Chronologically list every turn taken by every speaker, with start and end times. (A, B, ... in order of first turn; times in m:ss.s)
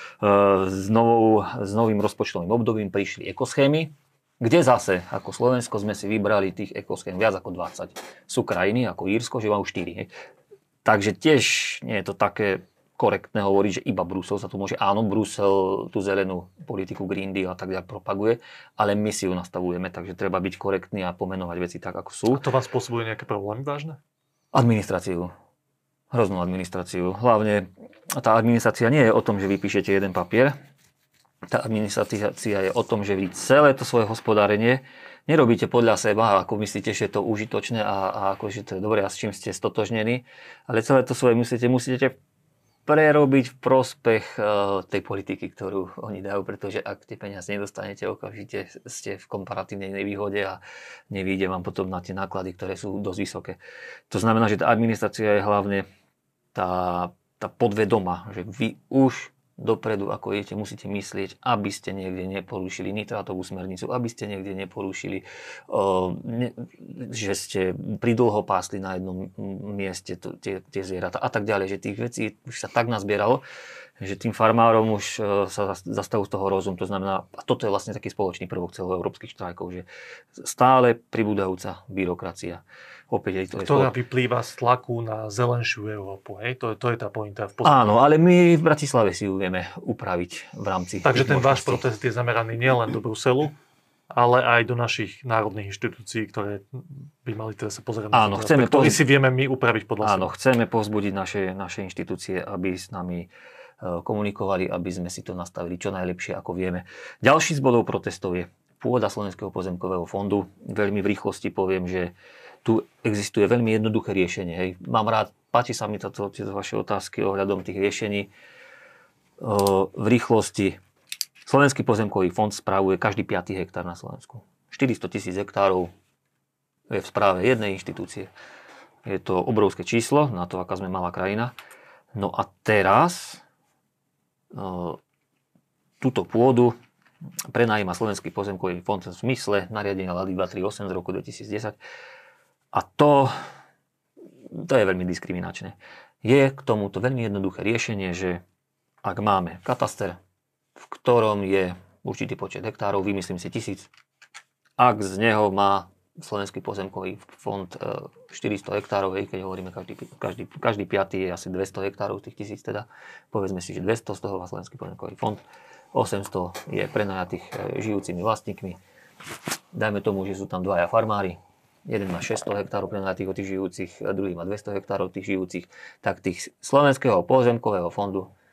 0:00.2-0:10.1 A
0:10.8-0:22.5 A
0:22.3-0:24.0 B
0:24.5-0:25.3 A
0:26.1-0:30.6 A
0:31.5-0:42.2 A
0:42.9-0:53.6 A
0:54.1-0:55.8 A
0:56.5-1:13.4 A
1:14.0-1:23.9 A
1:23.6-1:27.8 B
1:27.6-1:31.8 A
1:31.0-1:33.5 B
1:34.1-1:40.3 B
1:38.1-1:39.0 A
1:40.0-1:43.3 A
1:43.8-1:58.3 A
1:59.4-2:00.8 A
2:01.4-2:05.9 A
2:06.9-2:08.3 A
2:09.0-2:11.5 A
2:12.2-2:13.4 A
2:14.5-2:15.0 A
2:16.0-2:16.8 A
2:17.5-2:21.8 A
2:22.7-2:23.3 A
2:24.5-2:28.4 A
2:29.0-2:30.2 A
2:30.8-2:33.9 A
2:34.8-2:45.4 A
2:45.9-2:48.8 A
2:49.7-2:58.3 A